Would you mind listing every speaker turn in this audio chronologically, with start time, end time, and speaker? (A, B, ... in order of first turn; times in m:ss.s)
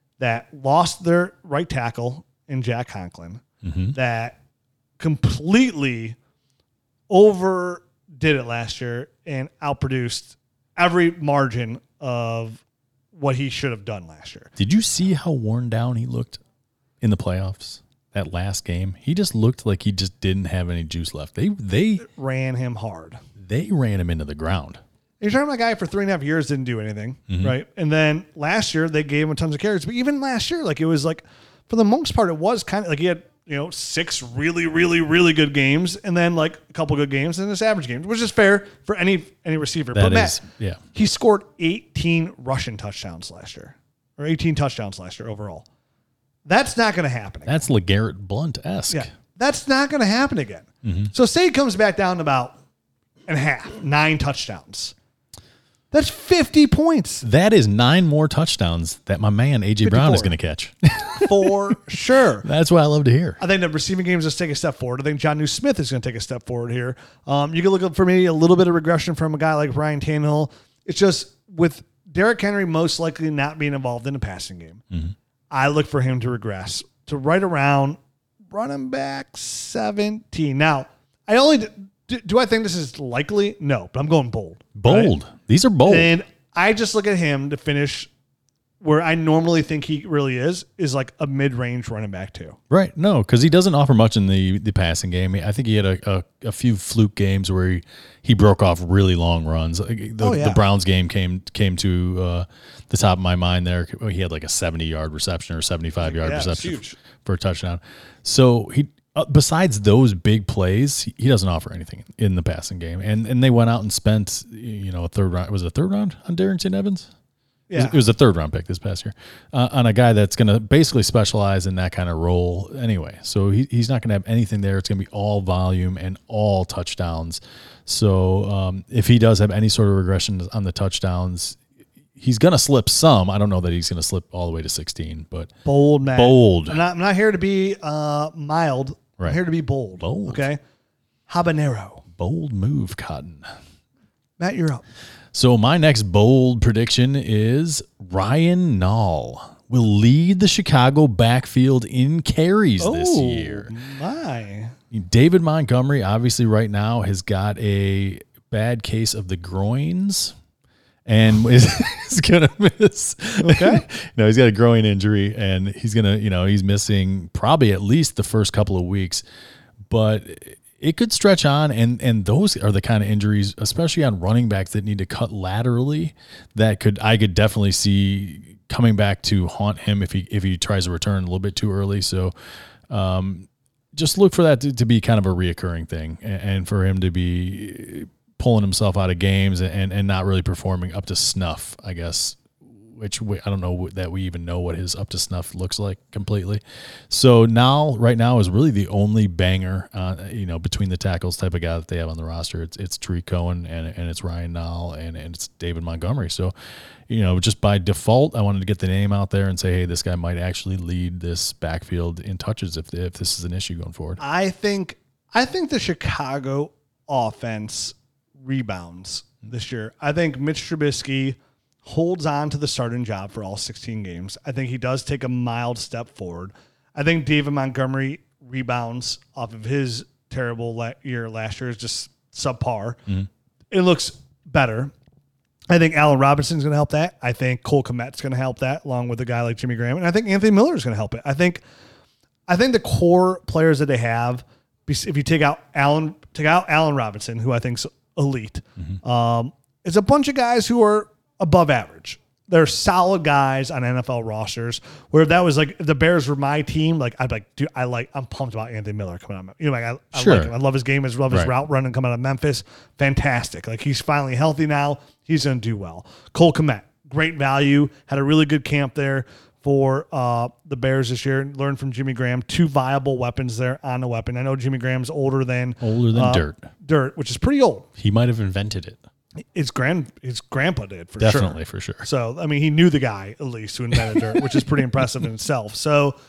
0:00.2-0:03.4 A
0:03.6-0:04.0 B
0:03.9-0:04.4 A
0:05.0-0:06.2 A
0:07.1-0:12.6 A
0:13.1-0:14.5 A
0:14.6-0:16.4 B
0:17.0-0:22.1 B
0:22.0-0:23.2 A
0:23.4-0:24.8 B
0:25.2-0:40.4 A
0:27.3-0:27.6 B
0:39.9-0:40.8 B
0:40.9-0:45.6 A
0:46.4-0:47.5 A
0:47.4-0:49.1 B
0:48.9-0:52.6 A
0:50.8-0:51.1 B
0:53.3-0:54.9 A
0:55.9-0:57.2 A
0:57.2-1:01.6 B
0:59.8-1:00.3 A
1:01.1-1:02.4 A
1:02.4-1:03.4 B
1:03.4-1:14.8 A
1:15.5-1:18.0 A
1:18.5-1:25.1 A
1:24.8-1:26.1 B
1:25.9-1:28.1 A
1:28.8-1:32.6 A
1:32.7-1:57.1 B
1:40.2-1:40.6 A
1:46.0-1:47.0 A
1:57.7-1:58.0 A
1:57.7-2:11.6 B
2:12.2-2:15.5 B
2:15.6-2:20.6 A
2:16.1-2:16.8 B
2:20.0-2:20.4 B
2:21.3-2:22.0 A
2:22.2-2:23.5 B
2:24.4-2:24.8 A
2:25.3-2:33.7 B
2:32.8-2:34.7 A
2:34.9-2:40.3 B
2:41.0-2:49.2 B
2:43.4-2:43.8 A
2:49.9-3:02.3 B
3:02.9-3:26.5 B
3:27.1-3:34.2 B
3:34.2-3:53.0 A
3:53.7-3:54.9 A
3:55.7-4:01.6 A
4:02.5-4:37.9 A
4:20.1-4:20.5 B
4:35.8-4:36.7 B
4:38.0-4:39.0 B
4:39.5-4:46.2 A
4:41.2-4:42.0 B